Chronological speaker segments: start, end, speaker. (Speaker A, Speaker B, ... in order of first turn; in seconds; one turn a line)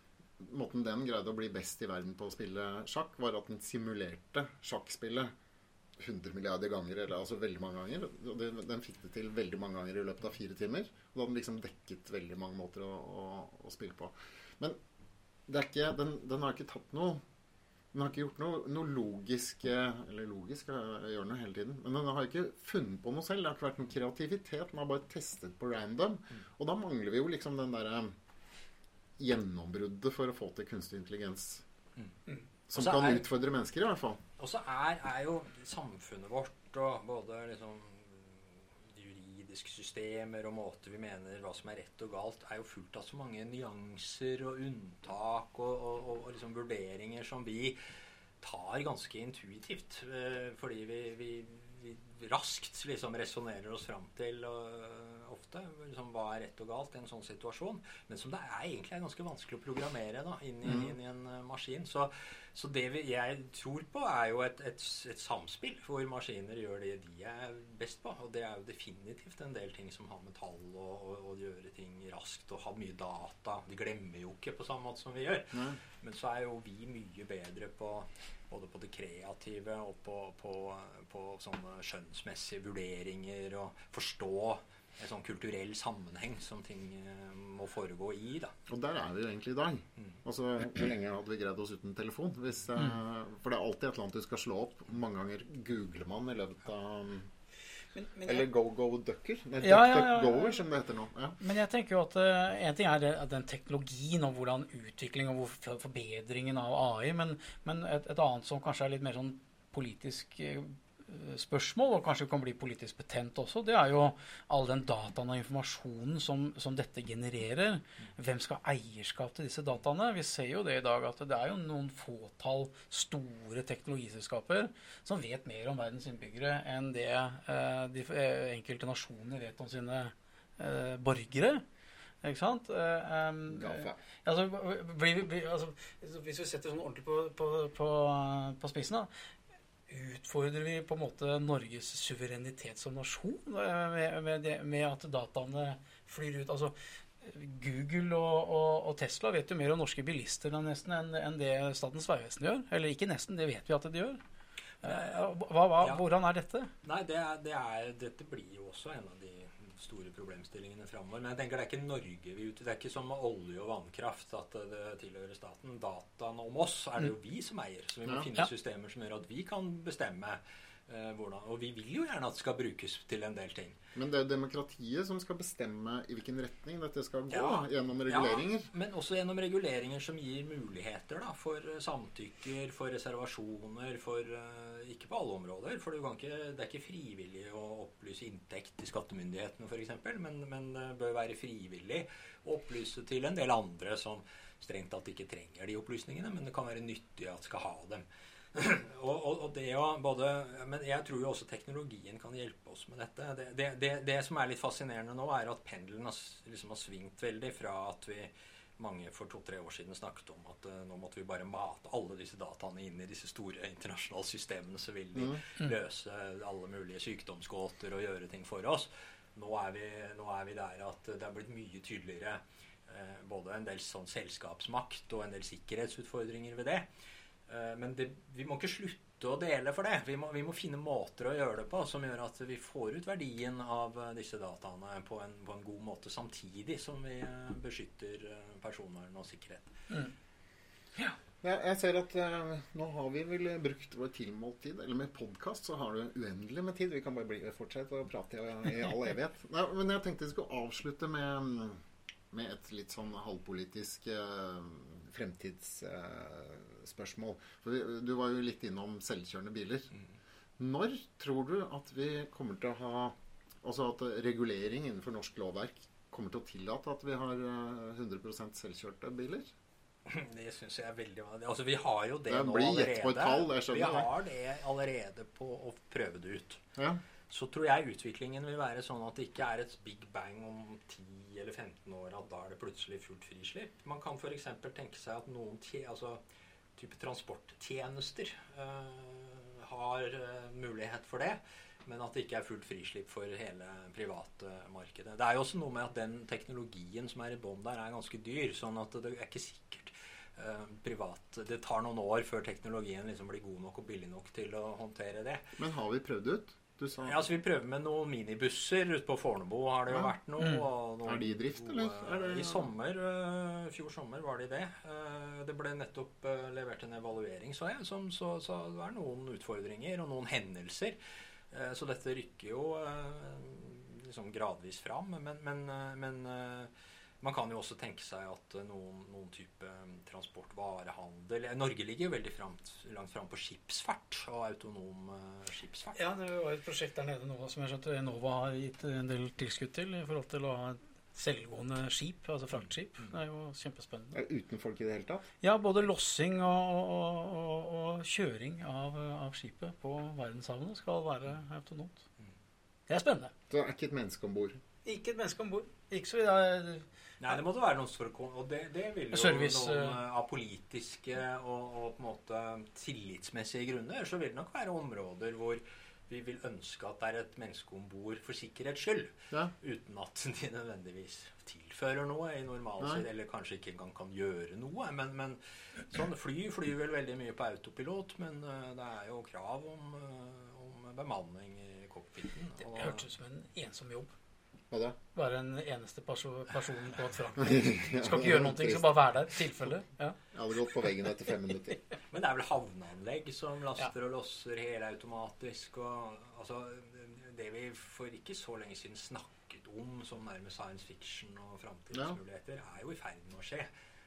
Speaker A: 0.4-5.3
Speaker A: 6.0-14.8
Speaker A: 15.5-17.2
Speaker A: 17.9-28.1
Speaker A: 29.2-31.6
Speaker A: 32.7-34.2
Speaker B: 32.7-33.3
Speaker B: 34.4-47.8
Speaker B: 48.4-88.5
Speaker A: 60.6-60.9
Speaker A: 75.5-75.8
Speaker A: 88.7-97.3
Speaker C: 97.9-98.5
Speaker A: 98.2-101.4
Speaker C: 99.6-100.6
Speaker C: 101.4-131.6
Speaker C: 132.2-139.1
Speaker A: 133.5-134.0
Speaker C: 139.9-154.2
Speaker B: 154.8-155.2
Speaker C: 154.8-156.7
Speaker B: 156.8-173.8
Speaker A: 173.9-178.7
Speaker B: 177.3-226.8
Speaker B: 227.5-239.7
Speaker A: 241.4-251.8
Speaker A: 252.3-259.9
Speaker A: 260.6-269.5
Speaker B: 270.1-276.6
Speaker A: 272.3-274.1
Speaker A: 276.8-277.0
Speaker B: 277.3-286.2
Speaker B: 286.8-305.4
Speaker A: 305.6-307.2
Speaker B: 307.0-321.0
Speaker C: 310.4-310.6
Speaker A: 311.0-312.7
Speaker B: 321.5-326.7
Speaker B: 327.2-336.0
Speaker C: 335.9-344.1
Speaker A: 344.1-345.3
Speaker C: 345.4-352.0
Speaker C: 352.9-353.3
Speaker A: 353.5-354.6
Speaker C: 354.8-357.4
Speaker B: 357.2-383.0
Speaker C: 359.1-360.0
Speaker C: 382.6-384.1
Speaker A: 384.7-385.0
Speaker C: 385.1-390.2
Speaker A: 387.4-389.0
Speaker A: 390.3-391.8
Speaker B: 392.1-403.7
Speaker A: 401.9-402.2